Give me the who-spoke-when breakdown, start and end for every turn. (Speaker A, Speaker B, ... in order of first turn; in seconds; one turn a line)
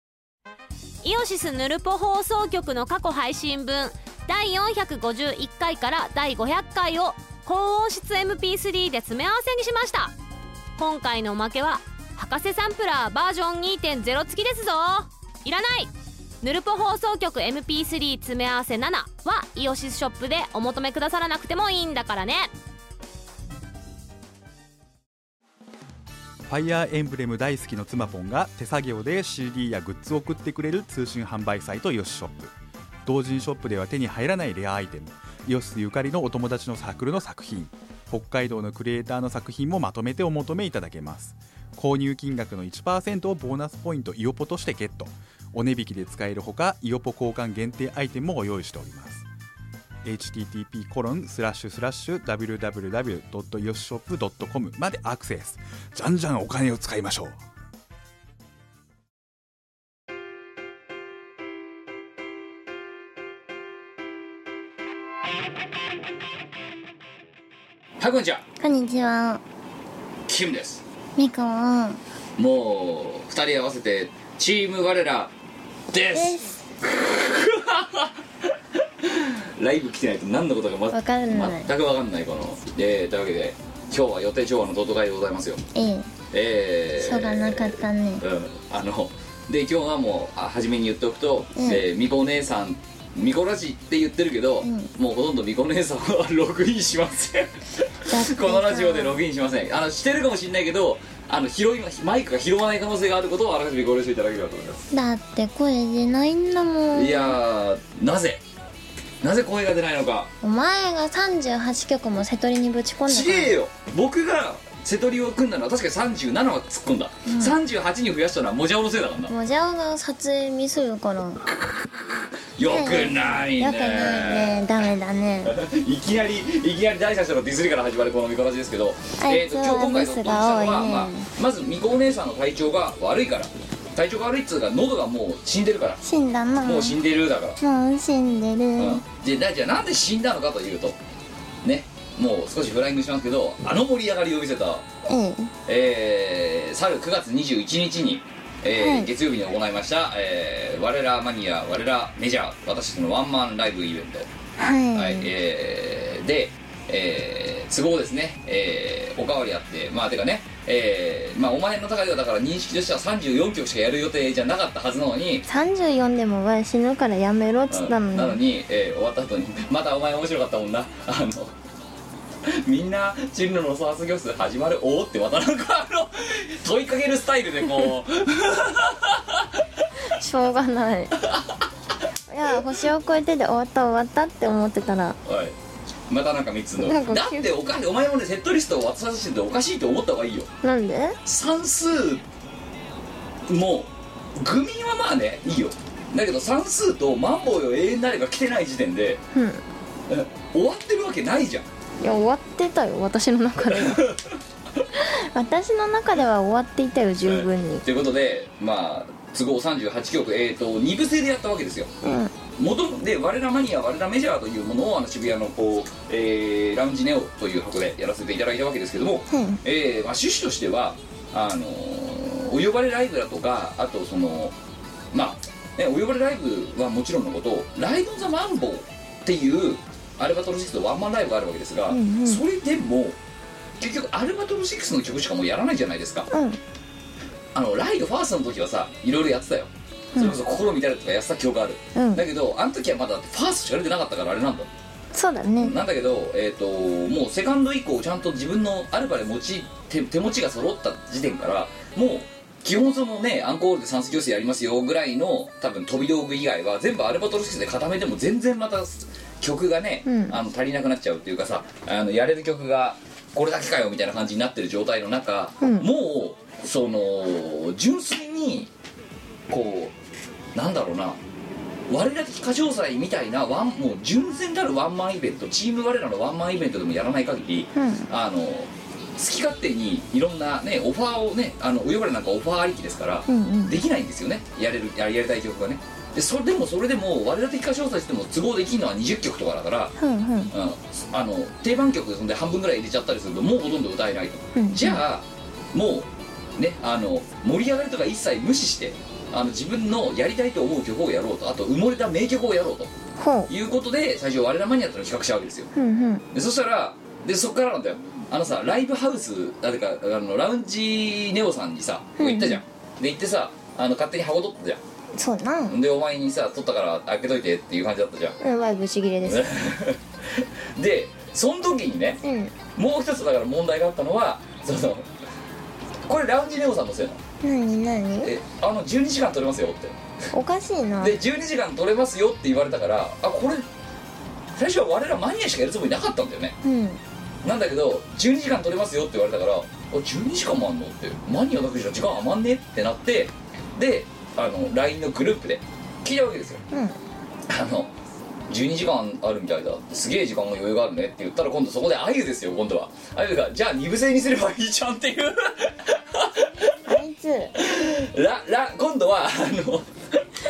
Speaker A: 1.0-10.1
Speaker A: 10.8-15.9
Speaker A: 16.4-22.5
Speaker B: 26.5-32.5
Speaker B: 33.0-49.3
Speaker B: 50.0-57.4
Speaker C: 68.0-68.4
Speaker D: 68.6-69.4
Speaker C: 70.3-70.8
Speaker D: 71.2-72.0
Speaker C: 72.4-75.3
Speaker C: 75.9-78.1
Speaker D: 76.1-76.5
Speaker C: 79.0-85.6
Speaker D: 80.9-81.7
Speaker D: 85.7-86.1
Speaker C: 86.3-104.9
Speaker D: 87.0-88.2
Speaker D: 91.6-91.8
Speaker D: 94.6-94.9
Speaker D: 98.1-99.2
Speaker D: 104.9-107.4
Speaker C: 106.9-108.4
Speaker C: 109.2-110.3
Speaker D: 110.4-113.5
Speaker C: 113.1-119.3
Speaker D: 117.3-117.5
Speaker D: 119.3-121.4
Speaker C: 122.5-124.7
Speaker D: 122.7-125.5
Speaker C: 125.5-136.0
Speaker D: 129.2-131.3
Speaker D: 136.0-137.0
Speaker C: 136.6-137.6
Speaker D: 137.6-139.0
Speaker C: 138.8-141.0
Speaker C: 141.6-144.9
Speaker D: 145.1-145.5
Speaker C: 145.7-154.3
Speaker D: 148.7-149.1
Speaker D: 154.6-155.3
Speaker C: 154.9-165.4
Speaker D: 165.5-168.4
Speaker C: 167.7-171.5
Speaker C: 172.5-179.6
Speaker D: 180.1-181.2
Speaker C: 181.2-181.5
Speaker D: 182.3-185.2
Speaker C: 185.2-185.6
Speaker C: 186.1-190.5
Speaker D: 186.8-187.5
Speaker D: 190.6-191.2
Speaker C: 191.3-192.2
Speaker C: 193.5-199.2
Speaker D: 199.3-199.6
Speaker C: 200.1-201.7
Speaker D: 202.0-204.1
Speaker C: 203.7-204.2
Speaker D: 205.0-207.8
Speaker C: 207.2-211.9
Speaker D: 212.0-212.3
Speaker C: 212.6-224.6
Speaker D: 219.3-219.6
Speaker C: 225.1-233.2
Speaker D: 231.9-232.4
Speaker C: 233.8-236.3
Speaker D: 236.3-236.6
Speaker C: 237.5-244.7
Speaker D: 241.9-242.2
Speaker D: 245.1-245.8
Speaker C: 245.6-268.7
Speaker D: 260.1-260.4
Speaker D: 265.6-265.9
Speaker C: 269.5-269.9
Speaker C: 270.6-271.2
Speaker C: 271.9-289.9
Speaker D: 277.8-278.1
Speaker D: 283.3-283.8
Speaker D: 290.0-290.5
Speaker C: 290.5-302.9
Speaker D: 294.6-295.0
Speaker D: 303.2-303.5
Speaker C: 303.5-305.7
Speaker D: 305.8-306.2
Speaker C: 306.3-314.8
Speaker D: 312.2-312.6
Speaker D: 315.1-315.8
Speaker C: 315.7-318.4
Speaker D: 318.4-319.4
Speaker C: 319.2-322.2
Speaker D: 322.2-322.5
Speaker C: 322.8-325.1
Speaker C: 326.1-327.2
Speaker D: 327.4-328.3
Speaker C: 328.2-330.0
Speaker D: 330.3-331.1
Speaker C: 331.0-333.7
Speaker C: 334.6-336.6
Speaker D: 336.6-337.0
Speaker C: 337.4-346.6
Speaker D: 346.7-347.0
Speaker C: 347.5-347.9
Speaker C: 348.5-356.8
Speaker D: 356.9-357.5
Speaker C: 357.6-360.2